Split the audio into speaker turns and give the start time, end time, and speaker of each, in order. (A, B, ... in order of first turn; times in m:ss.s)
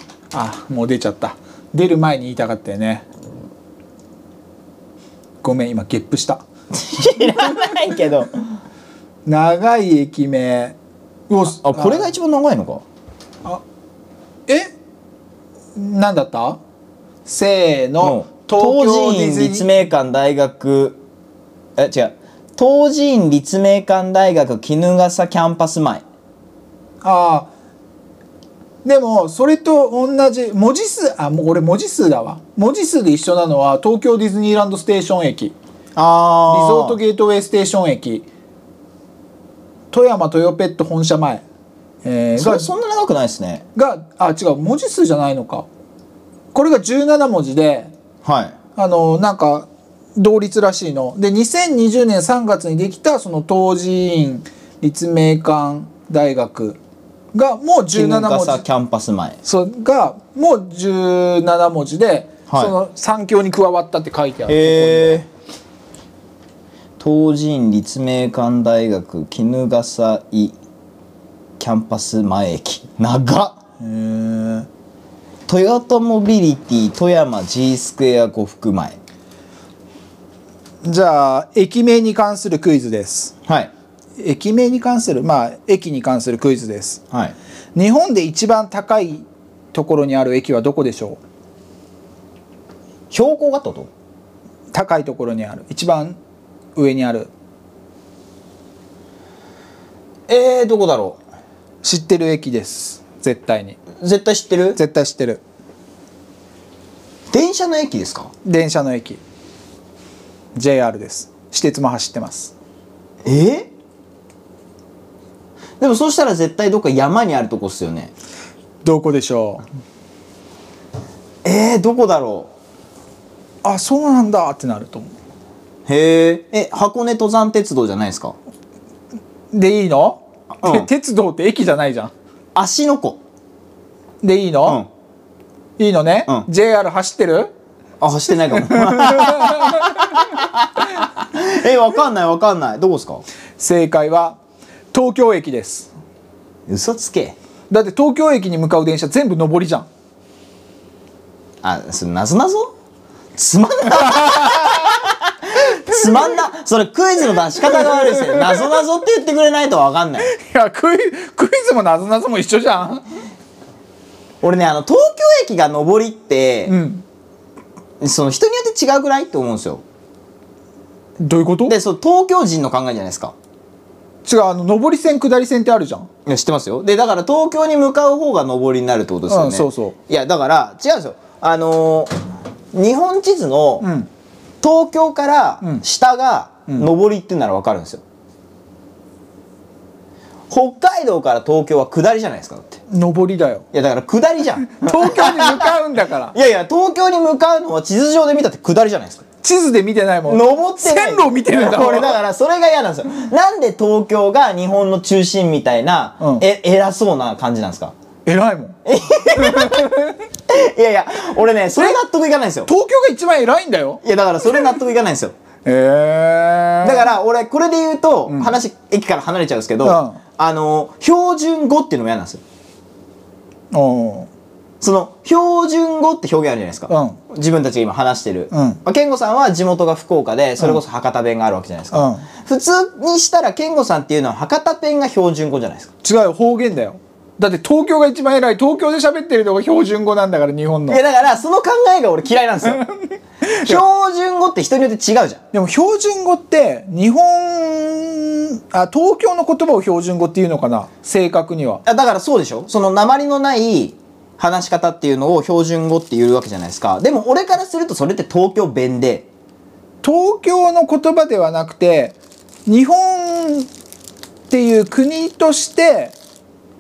0:00.3-0:03.0 A
0:05.4-0:06.4 A
0:06.7-0:08.3 B
0:09.3-0:10.8 A
0:11.3-0:12.1 A
0:11.5-0:12.8 B
0:15.8-0:16.6 A
0:17.3-0:19.7 A
0:18.0-0:21.0 B
0:21.8-0:26.0 B
0:27.0-0:27.5 A
0:28.8-0:35.5 A
0:36.0-0:37.0 B
0:36.5-0:38.3 A
0:39.9-0:41.4 A
0:42.0-0:42.7 A
0:42.4-0:43.6 B
0:43.8-0:45.7 A
0:46.5-0:47.9 A
0:48.2-0:48.6 B
0:48.8-0:56.8 A
0:57.3-0:58.6 A
0:57.9-0:59.4 B
0:59.4-1:05.2 A
1:02.5-1:02.8 B
1:04.5-1:05.3 B
1:07.0-1:10.6 B
1:11.6-1:13.6 B
1:13.8-1:14.7 A
1:15.5-1:19.0 B
1:20.8-1:23.4 A
1:23.5-1:23.7 B
1:24.2-1:27.0 A
1:27.8-1:31.2 A
1:33.1-1:33.9 B
1:34.7-1:36.2 A
1:36.8-1:37.3 A
1:40.3-1:41.2 B
1:41.8-1:43.8 A
1:44.0-1:44.8 B
1:44.8-1:45.4 A
1:47.3-1:48.3 B
1:48.4-1:49.2 A
1:50.6-1:52.5 A
1:53.2-1:53.7 B
1:55.8-1:58.1 B
1:58.8-1:59.6 A
2:01.4-2:02.5 B
2:03.6-2:05.1 A
2:05.9-2:08.4 B
2:09.5-2:12.1 A
2:10.6-2:10.9 B
2:12.5-2:13.2 B
2:14.2-2:14.8 A
2:15.8-2:17.5 A
2:18.0-2:23.2 B
2:18.6-2:20.0 A
2:23.6-2:24.4 A
2:24.9-2:25.9 A
2:26.7-2:27.4 B
2:27.7-2:29.9 A
2:31.6-2:32.7 B
2:33.4-2:40.3 B
2:34.0-2:34.8 A
2:37.7-2:38.7 A
2:40.2-2:43.0 A
2:44.4-2:46.8 B
2:46.7-2:47.0 A
2:48.0-2:49.8 B
2:51.2-2:51.8 A
2:51.7-2:53.4 B
2:54.2-2:56.1 A
2:56.3-3:02.1 B
2:59.3-3:00.0 A
3:02.7-3:03.8 B
3:03.8-3:04.1 A
3:04.6-3:08.0 B
3:10.5-3:12.8 B
3:12.9-3:13.6 A
3:13.7-3:15.8 B
3:14.8-3:16.3 A
3:16.3-3:19.2 B
3:19.4-3:22.2 A
3:20.3-3:27.9 B
3:28.3-3:28.8 A
3:28.8-3:32.7 B
3:29.4-3:30.2 A
3:32.7-3:34.0 A
3:34.0-3:35.3 B
3:35.6-3:37.0 A
3:36.8-3:42.4 B
3:38.3-3:38.6 A
3:39.8-3:40.2 A
3:43.7-3:44.3 A
3:44.8-3:55.9 B
3:46.9-3:47.2 A
3:48.5-3:48.8 A
3:51.9-3:52.3 A
3:56.0-4:01.0 A
4:00.9-4:02.8 B
4:02.8-4:03.8 A
4:03.6-4:05.4 B
4:05.5-4:11.8 A
4:11.9-4:19.3 B
4:20.0-4:23.7 A
4:24.5-4:26.2 A